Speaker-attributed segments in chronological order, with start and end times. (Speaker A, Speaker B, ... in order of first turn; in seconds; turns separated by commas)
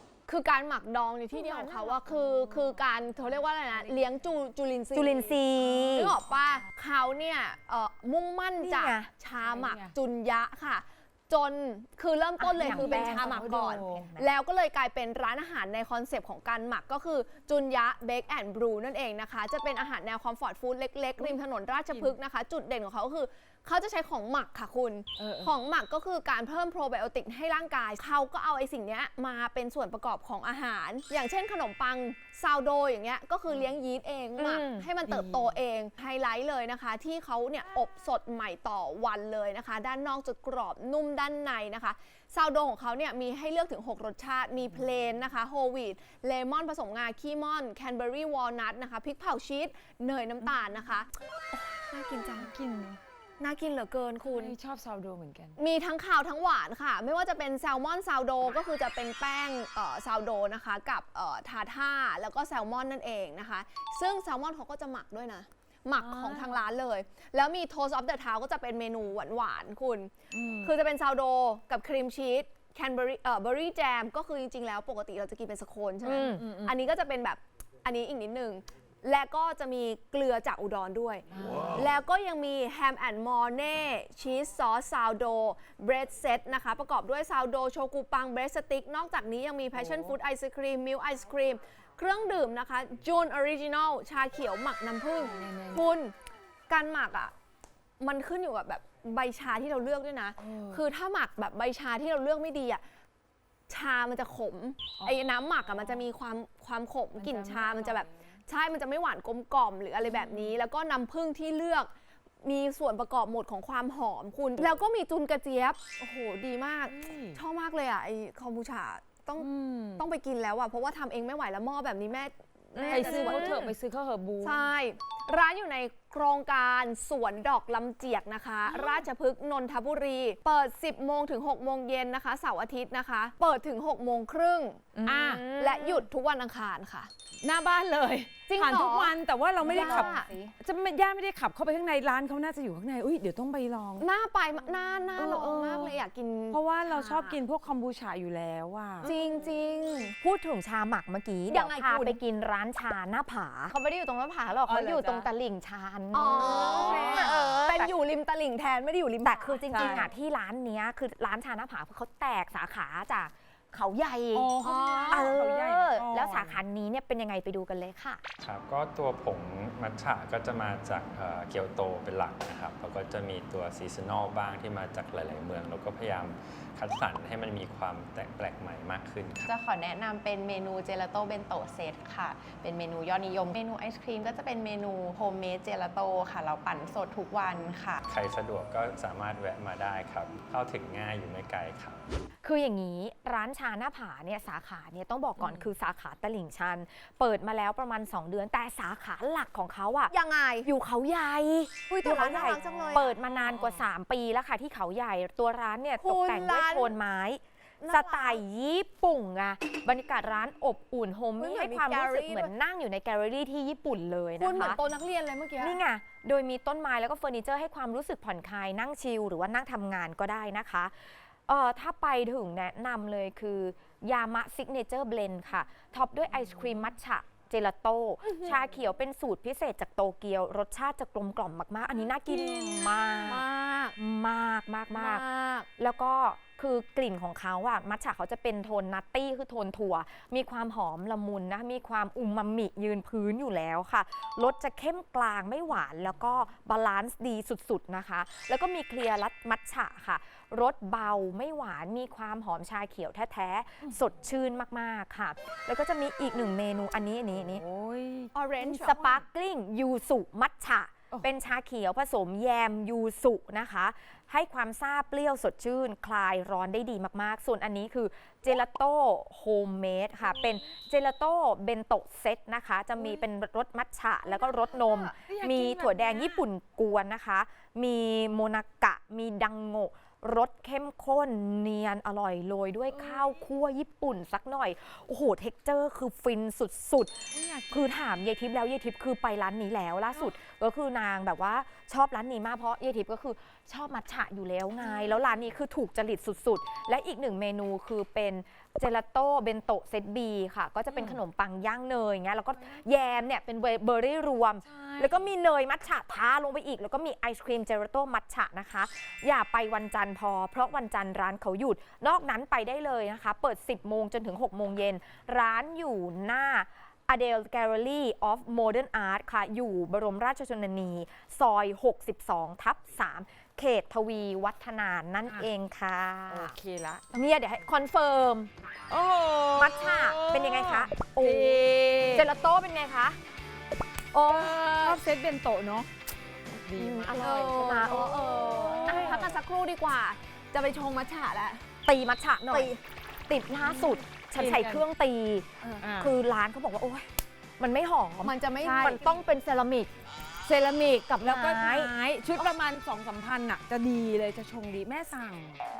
Speaker A: 0.3-52.5, Speaker B: 1.5-1.9, Speaker C: 4.9-6.1, Speaker C: 8.6-9.1, Speaker B: 9.4-9.9, Speaker C: 12.4-14.3, Speaker B: 12.6-14.1, Speaker B: 25.2-25.5, Speaker C: 34.4-34.9, Speaker B: 35.1-35.5, Speaker B: 52.3-53.0, Speaker A: 53.4-54.5, Speaker B: 54.2-55.6, Speaker A: 55.6-96.1, Speaker B: 66.0-66.6, Speaker B: 70.3-70.7, Speaker C: 76.0-76.4, Speaker B: 76.3-76.7, Speaker B: 81.3-81.8, Speaker B: 89.7-90.1, Speaker B: 95.2-95.8, Speaker A: 96.7-97.3, Speaker A: 98.0-102.8, Speaker B: 100.4-100.8, Speaker A: 103.7-111.9, Speaker B: 105.0-106.0, Speaker B: 107.1-108.4, Speaker B: 110.0-110.5, Speaker A: 112.4-123.7, Speaker B: 116.9-117.4, Speaker B: 119.4-120.0, Speaker C: 122.8-123.6, Speaker B: 122.8-124.6, Speaker A: 124.4-137.1, Speaker B: 135.0-135.5, Speaker C: 135.2-136.0, Speaker B: 137.4-144.1, Speaker A: 138.5-140.3, Speaker C: 139.6-140.5, Speaker A: 144.0-147.3, Speaker B: 145.1-146.0, Speaker B: 146.5-149.1, Speaker A: 149.0-150.2, Speaker C: 150.2-157.9, Speaker A: 151.5-152.2, Speaker B: 154.7-155.3, Speaker A: 156.1-160.1, Speaker B: 156.7-157.7, Speaker C: 159.2-168.2, Speaker B: 164.3-166.6, Speaker A: 164.6-165.1, Speaker D: 168.4-179.5, Speaker E: 179.5-188.0, Speaker D: 188.0-192.0, Speaker C: 192.4-200.1, Speaker A: 200.1-200.7, Speaker C: 200.6-214.8, Speaker A: 201.9-203.8, Speaker A: 206.0-207.0, Speaker A: 207.8-208.4, Speaker A: 211.4-212.5, Speaker A: 214.4-215.8, Speaker C: 215.6-233.4, Speaker A: 232.3-233.9, Speaker C: 233.9-235.2, Speaker A: 234.9-235.7, Speaker C: 235.8-257.6, Speaker B: 257.4-258.3, Speaker A: 258.3-259.1, Speaker C: 258.6-326.5, Speaker B: 274.6-276.4, Speaker B: 282.9-283.3, Speaker B: 287.3-287.9, Speaker B: 294.8-295.2, Speaker B: 300.9-301.2, Speaker B: 304.6-305.3, Speaker B: 326.3-327.2, Speaker C: 327.1-328.5, Speaker B: 328.9-332.3, Speaker C: 329.6-331.6, Speaker C: 332.1-333.2, Speaker C: 334.1-334.9, Speaker B: 334.2-335.9, Speaker A: 334.6-334.9, Speaker B: 336.5-337.2, Speaker C: 336.7-339.2, Speaker A: 337.2-341.7, Speaker B: 337.9-339.3, Speaker C: 341.8-342.7, Speaker A: 342.5-342.8, Speaker C: 343.3-349.9, Speaker B: 343.6-344.8, Speaker A: 345.6-345.9, Speaker B: 345.8-346.1, Speaker A: 348.2-349.2, Speaker B: 348.6-349.0, Speaker B: 350.4-355.6, Speaker C: 351.2-352.5